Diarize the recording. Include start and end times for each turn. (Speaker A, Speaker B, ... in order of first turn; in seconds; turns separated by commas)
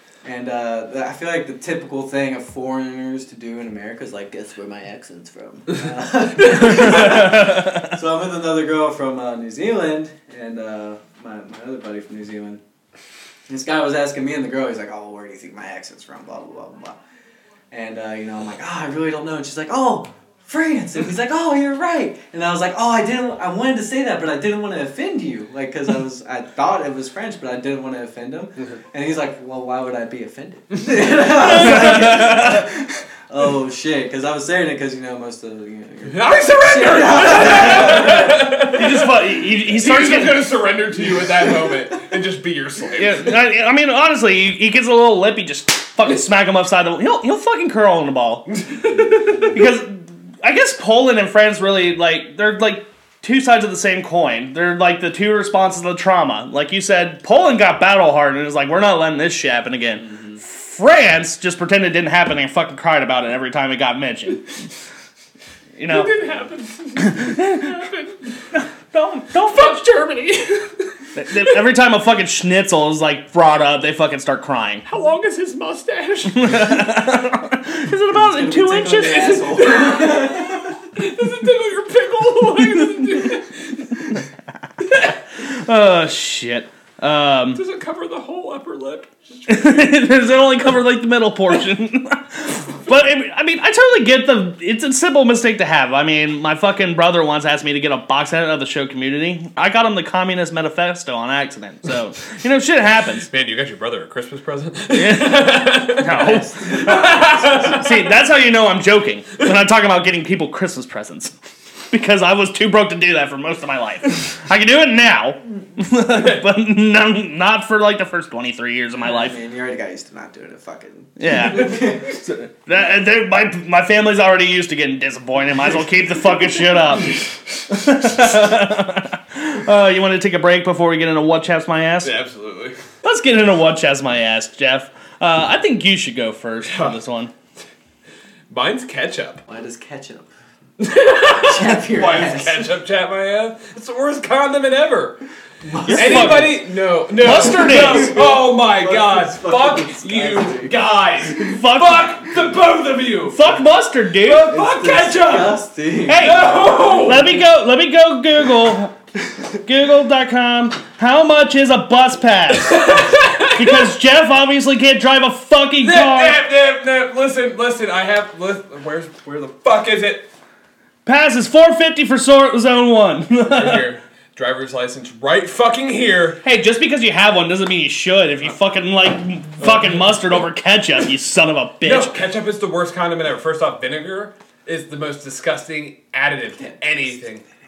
Speaker A: 0.2-12.6, Speaker A: 13.5-17.0, Speaker A: 17.7-38.5, Speaker B: 31.4-32.6, Speaker C: 36.1-43.3, Speaker B: 38.6-40.5, Speaker B: 43.0-64.5, Speaker B: 65.8-66.1, Speaker C: 65.9-68.2, Speaker B: 67.0-67.9, Speaker B: 68.5-69.9, Speaker C: 69.5-70.8, Speaker B: 71.2-74.8, Speaker C: 74.9-76.9, Speaker B: 76.3-79.3, Speaker A: 78.1-80.8, Speaker C: 79.0-84.1, Speaker B: 82.8-83.0, Speaker B: 84.9-87.6, Speaker C: 87.5-90.0, Speaker B: 89.5-103.3, Speaker C: 103.3-107.9, Speaker B: 104.9-111.3, Speaker B: 111.9-119.4, Speaker A: 119.0-122.2, Speaker B: 121.2-132.1, Speaker C: 132.0-132.8, Speaker B: 133.0-137.3, Speaker C: 136.7-137.0, Speaker C: 138.5-139.4, Speaker A: 139.5-140.3, Speaker C: 140.8-145.2, Speaker A: 141.3-142.7, Speaker A: 145.6-146.6, Speaker B: 145.8-146.6, Speaker C: 145.9-153.4, Speaker B: 147.1-148.2, Speaker A: 147.4-150.8, Speaker B: 151.4-152.1, Speaker B: 153.3-154.6, Speaker C: 154.2-157.4, Speaker A: 154.4-157.0, Speaker B: 156.1-159.0, Speaker B: 159.5-166.4, Speaker C: 162.7-163.9, Speaker C: 165.8-170.3, Speaker B: 171.1-173.9, Speaker C: 173.4-176.4, Speaker B: 176.4-182.2, Speaker C: 179.6-180.0, Speaker C: 181.8-187.4